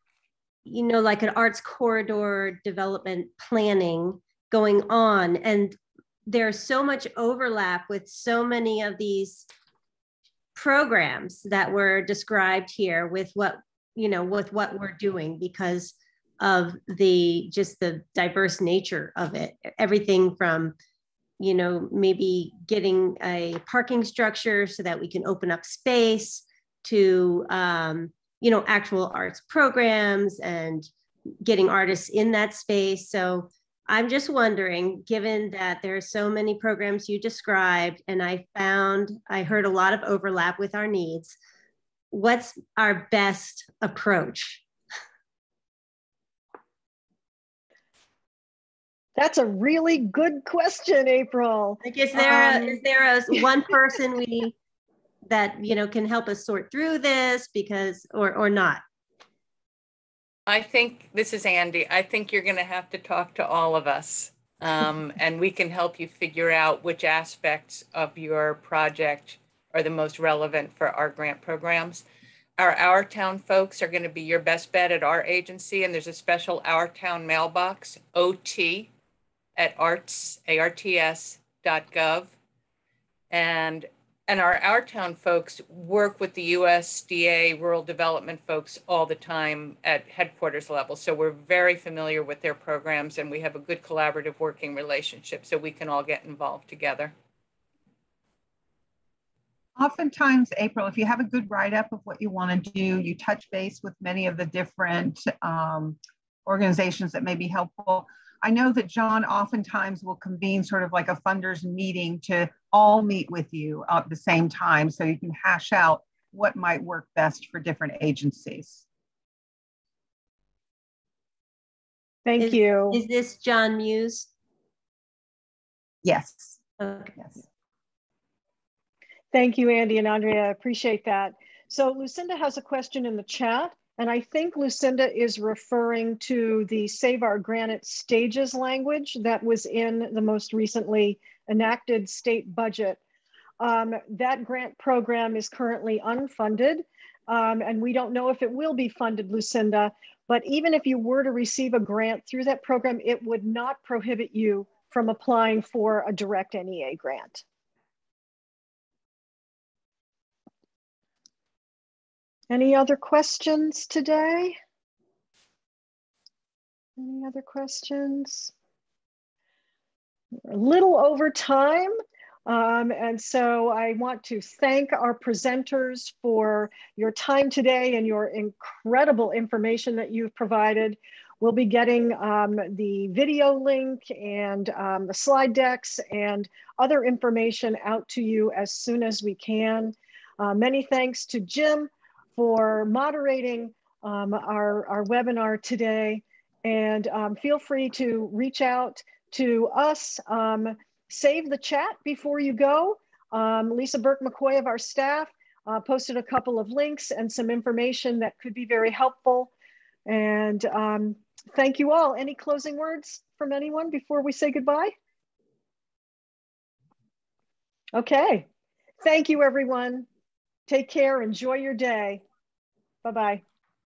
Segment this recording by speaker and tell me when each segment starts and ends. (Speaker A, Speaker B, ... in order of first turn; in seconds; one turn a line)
Speaker A: 0.7-9.4
Speaker A: 10.6-20.7
Speaker A: 21.4-30.9
Speaker A: 31.4-41.4
Speaker A: 42.1-44.6
Speaker B: 49.1-52.8
Speaker A: 51.8-54.5
Speaker A: 55.2-58.8
Speaker C: 60.5-72.0
Speaker C: 72.6-78.9
Speaker C: 79.5-82.4
Speaker C: 83.3-97.1
Speaker D: 99.8-118.8
Speaker B: 122.2-123.0
Speaker A: 122.4-124.3
Speaker D: 126.0-126.5
Speaker A: 126.8-127.1
Speaker B: 129.3-143.0
Speaker B: 143.6-157.4
Speaker B: 162.5-164.6
Speaker B: 167.0-168.5
Speaker B: 170.5-171.9
Speaker B: 172.4-209.5
Speaker B: 210.1-214.9
Speaker B: 217.9-218.5
Speaker B: 219.0-220.1
Speaker B: 220.7-222.2
Speaker B: 223.0-223.4